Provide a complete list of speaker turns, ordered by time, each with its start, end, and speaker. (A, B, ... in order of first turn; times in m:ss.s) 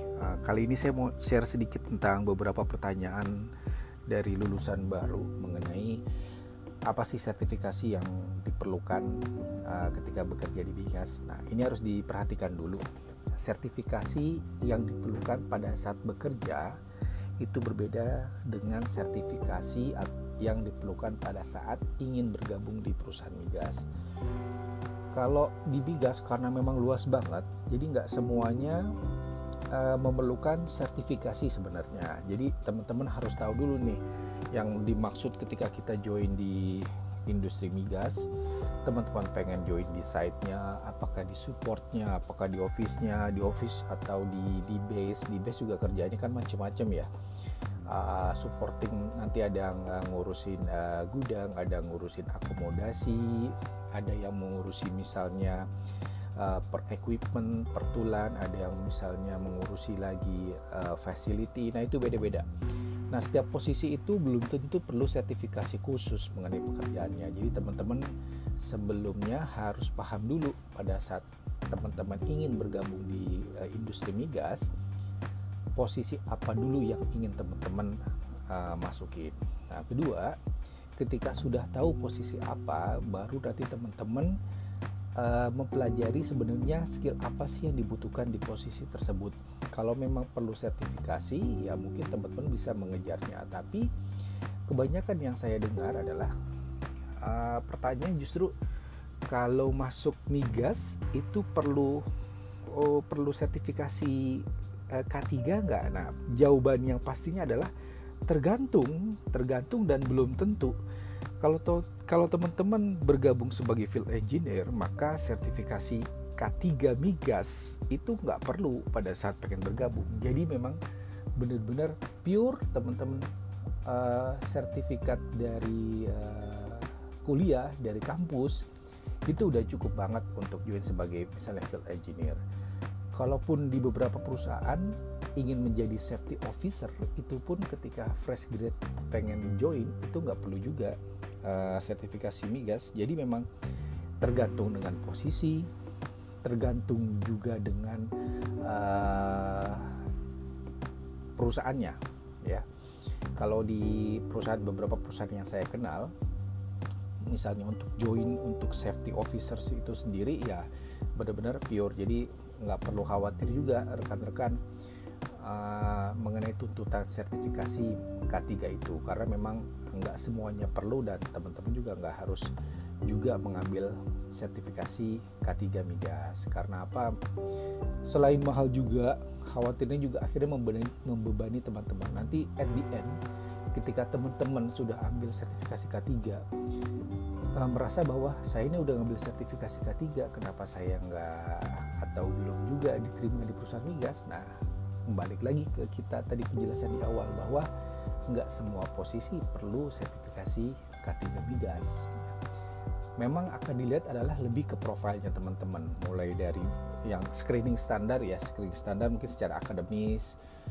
0:00.2-0:03.5 A
0:04.1-0:06.0 A
0:06.9-0:16.8 A
0:17.4-0:23.9 A
0:25.1-0:28.9 A
0:29.7-0:34.0 A
0:34.5-0:38.3 A
0:38.8-0:47.1 A
0:47.9-0:55.7 A
0:56.4-1:02.5 A
1:03.1-1:14.7 A
1:15.8-1:18.0 A
1:18.5-1:20.4 A
1:21.0-1:24.4 A
1:25.2-1:33.9 A
1:34.7-1:36.3 A
1:37.2-1:38.6 A
1:39.3-1:42.1 A
1:42.7-1:47.7 A
1:48.3-1:50.8 A
1:51.4-2:00.8 A
2:01.4-2:03.3 A
2:03.8-2:08.7 A
2:09.3-2:12.4 A
2:13.1-2:23.5 A
2:24.2-2:25.7 A
2:26.4-2:30.0 A
2:31.4-2:32.6 A
2:33.4-2:36.1 A
2:37.3-2:44.6 A
2:45.3-2:52.5 A
2:53.1-2:57.1 A
2:58.0-3:03.2 A
3:03.7-3:06.4 A
3:07.6-3:14.5 A
3:15.1-3:17.7 A
3:18.3-3:22.4 A
3:23.2-3:30.4 A